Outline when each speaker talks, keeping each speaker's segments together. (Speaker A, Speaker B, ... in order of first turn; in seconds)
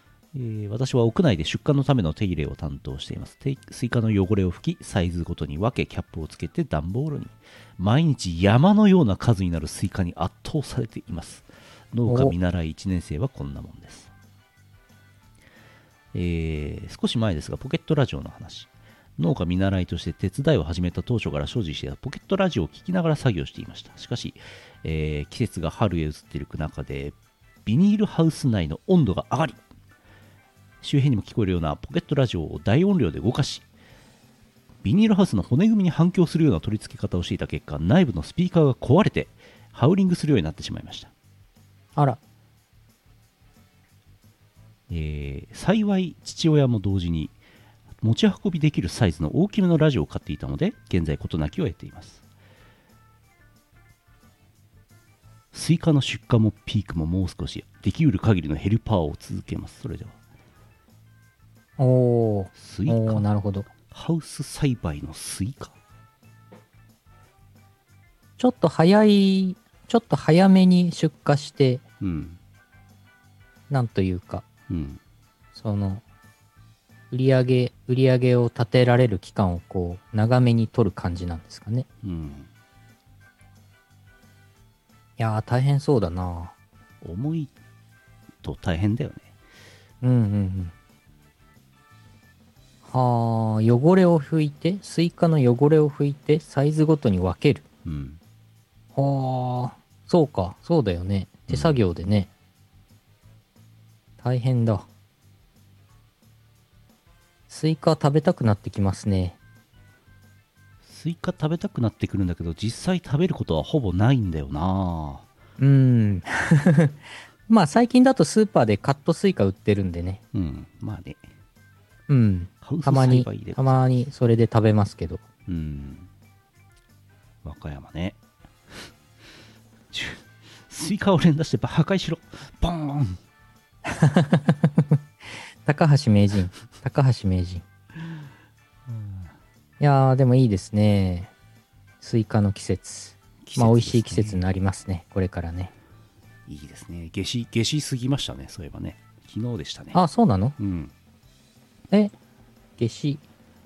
Speaker A: 0.3-14.1, 16.1-29.6, 30.8-33.6, 34.8-41.1, 44.9-47.4, 48.0-52.2, 55.5-60.1, 62.5-63.3, 63.8-65.7, 72.0-72.4, 74.7-75.0, 82.0-82.5, 87.0-87.5, 88.4-89.3, 97.8-98.2, 101.5-101.8, 110.8-115.2, 120.3-121.3, 122.6-123.8, 125.5-126.1, 127.4-128.2, 129.9-133.2, 138.9-139.3, 143.4-144.4, 146.5-150.0, 150.6-150.9
Speaker B: 12.1-12.3, 61.8-63.7, 68.4-71.8, 73.7-74.4, 75.5-76.0, 77.1-81.8, 85.2-86.5, 90.0-90.7, 92.8-97.6, 98.9-102.3, 104.2-104.9, 107.5-109.4, 115.6-117.0, 117.5-120.2, 122.1-125.2, 133.8-135.0, 135.6-137.6, 139.8-141.3, 142.0-145.7, 149.9-150.6, 152.8-153.2